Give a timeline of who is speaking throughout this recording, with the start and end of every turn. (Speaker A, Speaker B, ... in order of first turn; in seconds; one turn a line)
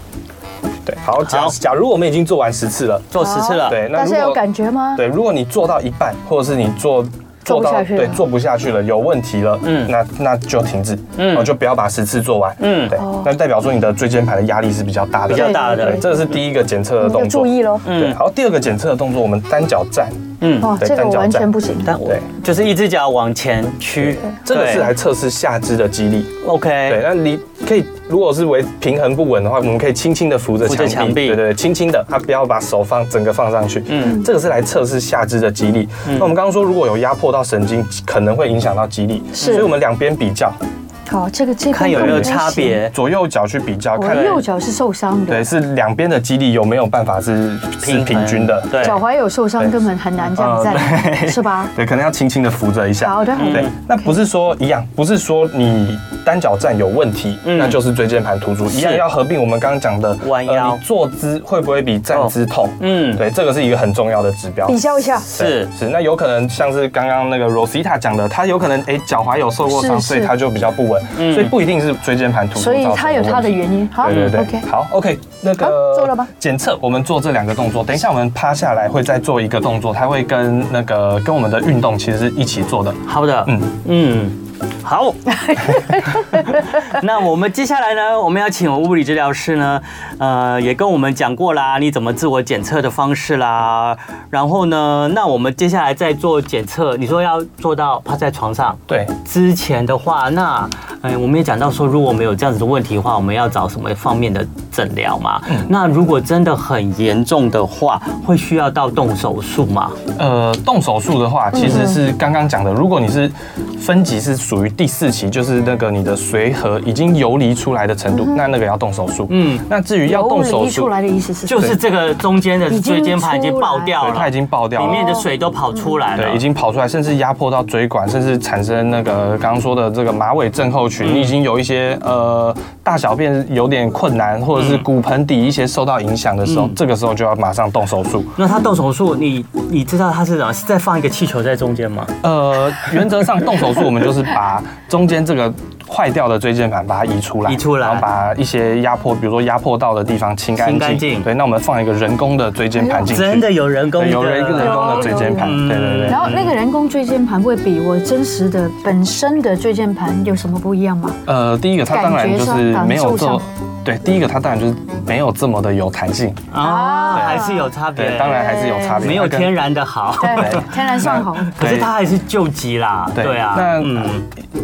Speaker A: 0.8-3.1
Speaker B: 1.2-1.6
Speaker B: 3.1-3.8
Speaker C: 3.2-5.0
Speaker A: 3.6-4.4
Speaker A: 4.9-21.5
Speaker C: 7.5-8.2
Speaker B: 9.6-9.9
Speaker B: 11.2-11.5
Speaker B: 12.6-13.0
Speaker C: 12.9-13.3
Speaker B: 15.3-16.1
Speaker C: 15.3-16.2
Speaker C: 17.0-17.9
Speaker B: 17.8-18.2
Speaker B: 20.4-20.7
Speaker C: 20.6-22.0
Speaker B: 21.9-24.9
Speaker A: 24.0-26.3
Speaker B: 26.4-27.0
Speaker A: 26.9-40.6
Speaker B: 30.6-31.4
Speaker B: 33.9-34.2
Speaker B: 36.0-36.3
Speaker B: 39.4-39.6
Speaker C: 39.4-39.7
Speaker C: 41.1-42.9
Speaker B: 41.7-42.9
Speaker A: 41.9-42.4
Speaker A: 42.9-44.4
Speaker C: 44.0-45.5
Speaker B: 44.1-44.4
Speaker A: 45.3-49.0
Speaker B: 47.8-49.0
Speaker C: 48.8-51.7
Speaker A: 50.3-83.7
Speaker C: 53.0-54.0
Speaker B: 53.4-53.7
Speaker B: 57.4-57.8
Speaker B: 58.7-59.0
Speaker B: 60.2-60.8
Speaker B: 62.1-63.2
Speaker C: 64.7-65.3
Speaker B: 65.3-65.7
Speaker C: 69.7-70.3
Speaker B: 71.2-71.5
Speaker C: 72.5-74.7
Speaker B: 74.0-74.4
Speaker C: 75.6-76.3
Speaker B: 83.1-110.0
Speaker C: 85.3-86.8
Speaker A: 110.2-120.9
Speaker C: 111.6-112.0
Speaker B: 119.3-119.6
Speaker C: 120.0-121.8
Speaker B: 121.5-126.4
Speaker C: 122.7-124.0
Speaker A: 124.0-125.2
Speaker C: 124.8-125.2
Speaker A: 126.2-138.4
Speaker B: 131.0-131.3
Speaker B: 134.6-134.8
Speaker B: 136.4-136.8
Speaker B: 138.4-142.2
Speaker A: 142.2-156.3
Speaker B: 147.5-148.1
Speaker B: 150.6-151.3
Speaker C: 152.8-153.2
Speaker B: 153.1-156.6
Speaker C: 154.6-161.2
Speaker A: 161.2-166.5
Speaker C: 161.9-163.4
Speaker B: 166.5-170.7
Speaker C: 166.6-167.7
Speaker A: 167.1-169.5
Speaker C: 168.3-169.1
Speaker C: 170.2-171.5
Speaker A: 170.4-171.9
Speaker B: 171.4-174.2
Speaker A: 173.1-174.1